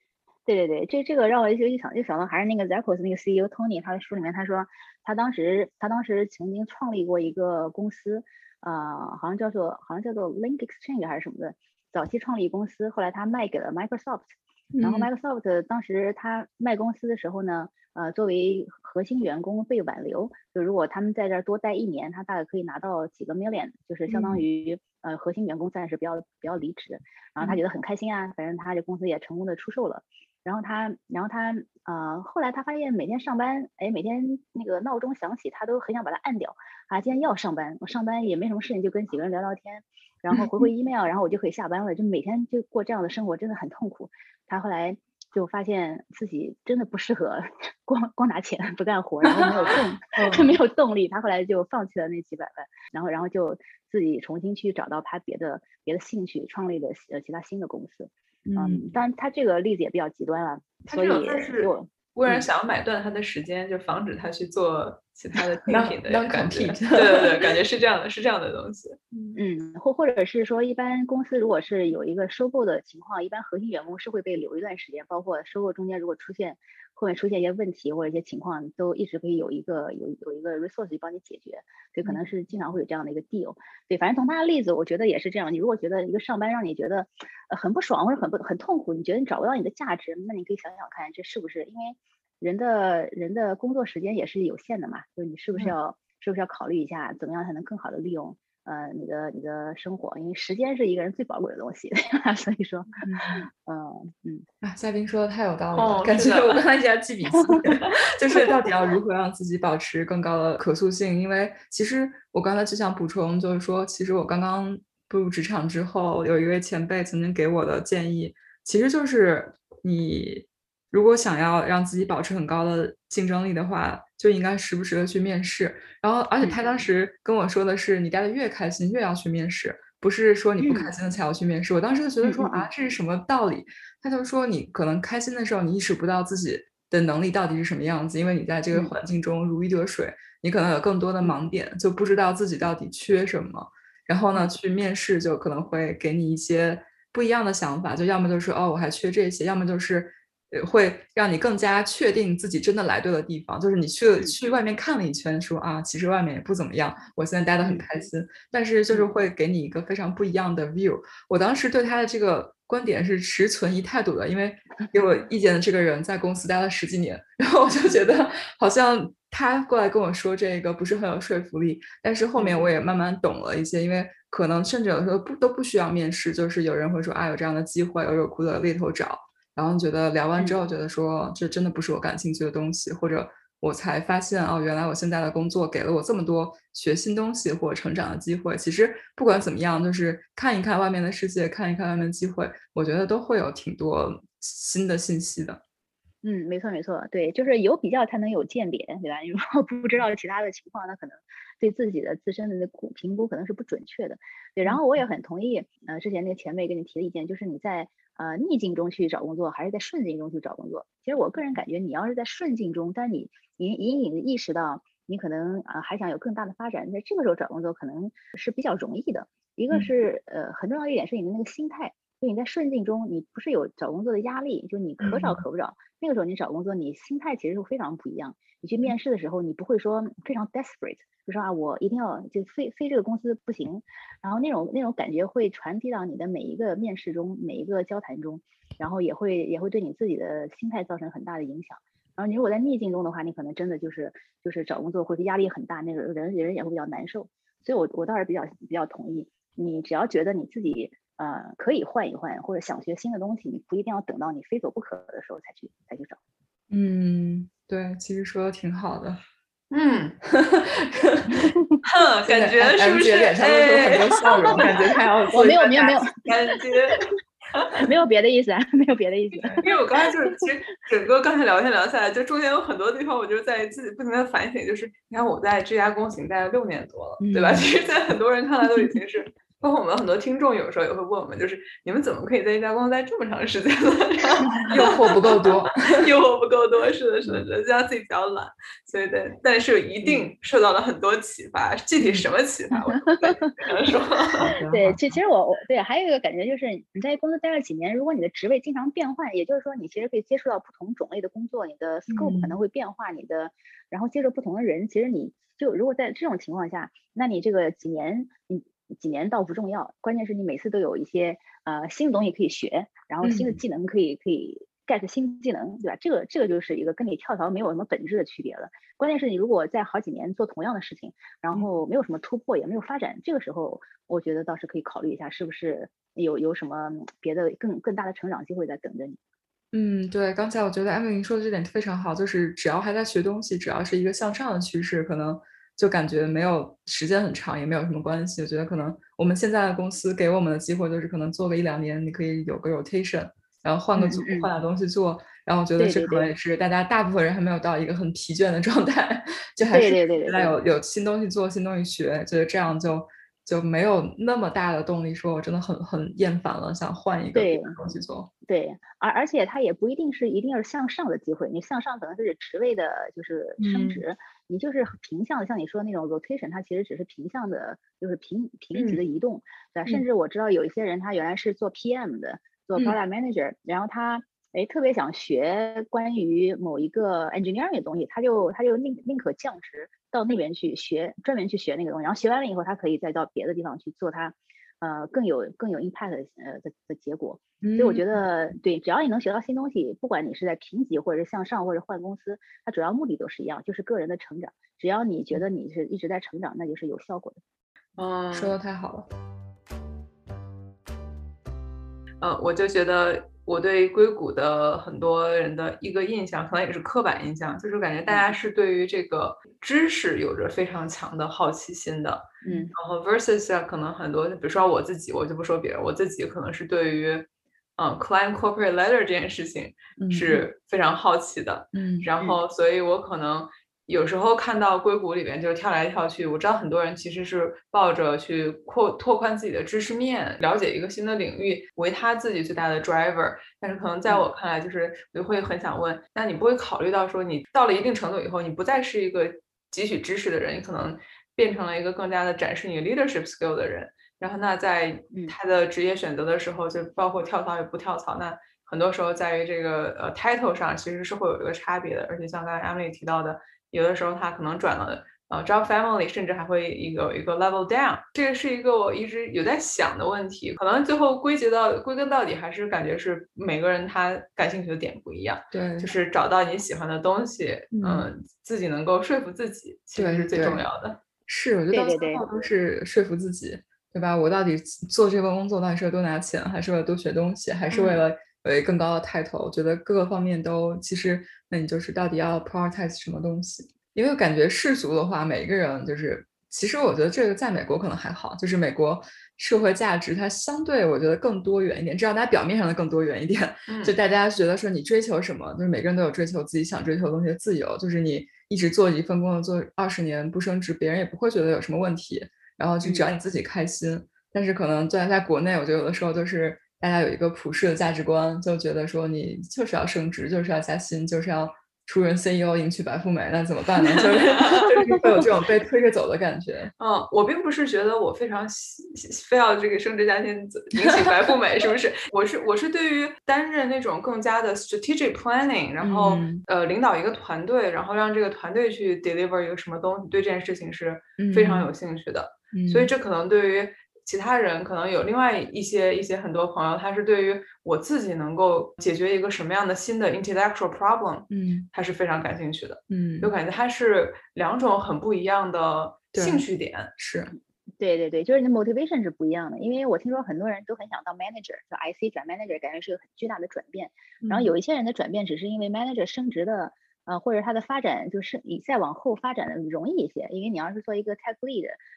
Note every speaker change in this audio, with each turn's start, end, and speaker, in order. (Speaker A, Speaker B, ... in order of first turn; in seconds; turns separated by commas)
Speaker A: 0.5-62.5, Speaker B: 14.7-15.1, Speaker B: 24.1-24.4, Speaker B: 49.4-50.6, Speaker B: 58.4-58.9, Speaker C: 60.9-69.2, Speaker B: 65.7-67.4, Speaker A: 69.3-104.5, Speaker B: 103.0-103.5, Speaker B: 104.6-195.6, Speaker C: 105.7-106.6, Speaker A: 130.6-130.9, Speaker A: 132.2-132.7, Speaker A: 157.6-157.8, Speaker A: 172.3-172.6, Speaker A: 196.2-256.2, Speaker B: 225.0-225.4, Speaker B: 256.7-259.2, Speaker C: 259.7-260.2, Speaker B: 260.3-261.5, Speaker C: 261.8-267.8, Speaker B: 262.2-265.6, Speaker A: 265.3-266.3, Speaker A: 267.8-269.8, Speaker C: 269.6-294.5, Speaker B: 277.2-277.7, Speaker B: 284.7-286.1, Speaker B: 292.0-292.3, Speaker A: 293.1-293.5, Speaker B: 294.4-295.2, Speaker A: 294.7-329.2, Speaker B: 302.1-302.6, Speaker B: 313.2-313.6, Speaker B: 329.7-358.3, Speaker A: 343.9-344.5, Speaker A: 345.8-346.3, Speaker A: 349.7-350.6, Speaker A: 357.3-357.8, Speaker A: 358.4-397.4, Speaker C: 363.6-364.0, Speaker C: 368.7-369.0, Speaker B: 387.6-388.0, Speaker C: 398.0-398.6, Speaker B: 398.3-399.1, Speaker C: 402.2-471.0, Speaker A: 408.1-408.3, Speaker A: 412.4-412.7, Speaker B: 420.0-420.4, Speaker B: 421.7-422.1, Speaker B: 465.5-465.9, Speaker B: 467.7-468.1, Speaker B: 469.9-470.6, Speaker B: 471.3-516.7, Speaker A: 471.7-472.2, Speaker C: 477.7-478.0, Speaker C: 493.7-493.9, Speaker C: 514.2-514.8, Speaker C: 516.8-546.9, Speaker B: 525.8-526.4, Speaker B: 531.2-531.7, Speaker B: 532.5-532.9, Speaker B: 541.3-541.7, Speaker B: 542.9-543.3, Speaker B: 546.1-546.4, Speaker B: 547.0-547.3, Speaker A: 547.8-561.8, Speaker B: 554.2-554.5